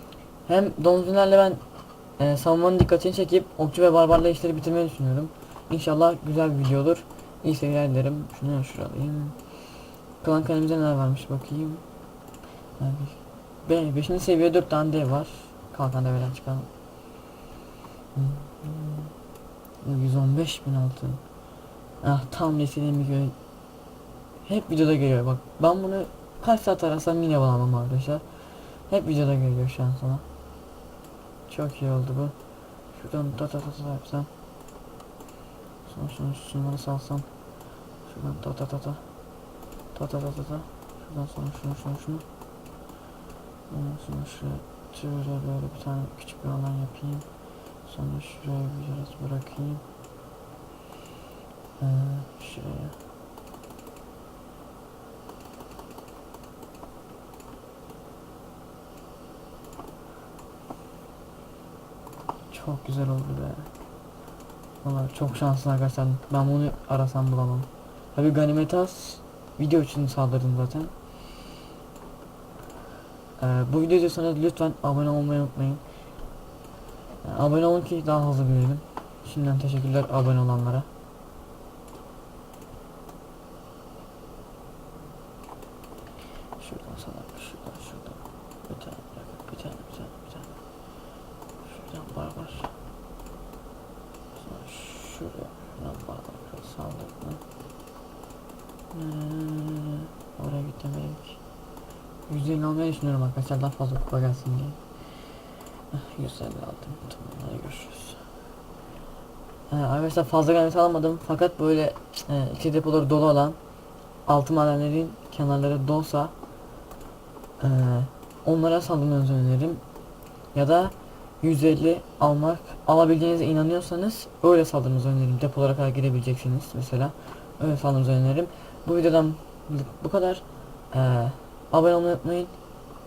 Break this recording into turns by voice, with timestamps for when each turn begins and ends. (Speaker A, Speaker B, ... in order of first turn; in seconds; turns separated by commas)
Speaker A: 0.5-1.6, Speaker A: 2.2-9.4, Speaker A: 10.2-11.8, Speaker A: 12.8-16.7, Speaker A: 18.1-19.1, Speaker A: 19.8-21.2, Speaker A: 22.0-23.4, Speaker A: 24.4-28.2, Speaker A: 28.9-30.2, Speaker A: 31.5-32.4, Speaker A: 32.9-34.3, Speaker A: 35.9-37.3, Speaker A: 38.0-39.0, Speaker A: 39.9-42.2, Speaker A: 43.7-47.3, Speaker A: 47.8-49.8, Speaker A: 51.8-53.0, Speaker A: 62.5-63.7, Speaker A: 64.8-70.9, Speaker A: 73.4-75.8, Speaker A: 77.2-80.9, Speaker A: 86.6-90.5, Speaker A: 91.6-92.7, Speaker A: 94.3-97.4, Speaker A: 98.9-101.4, Speaker A: 102.3-104.8, Speaker A: 105.9-108.2, Speaker A: 109.7-113.6, Speaker A: 114.3-116.3, Speaker A: 117.6-119.8, Speaker A: 120.5-132.5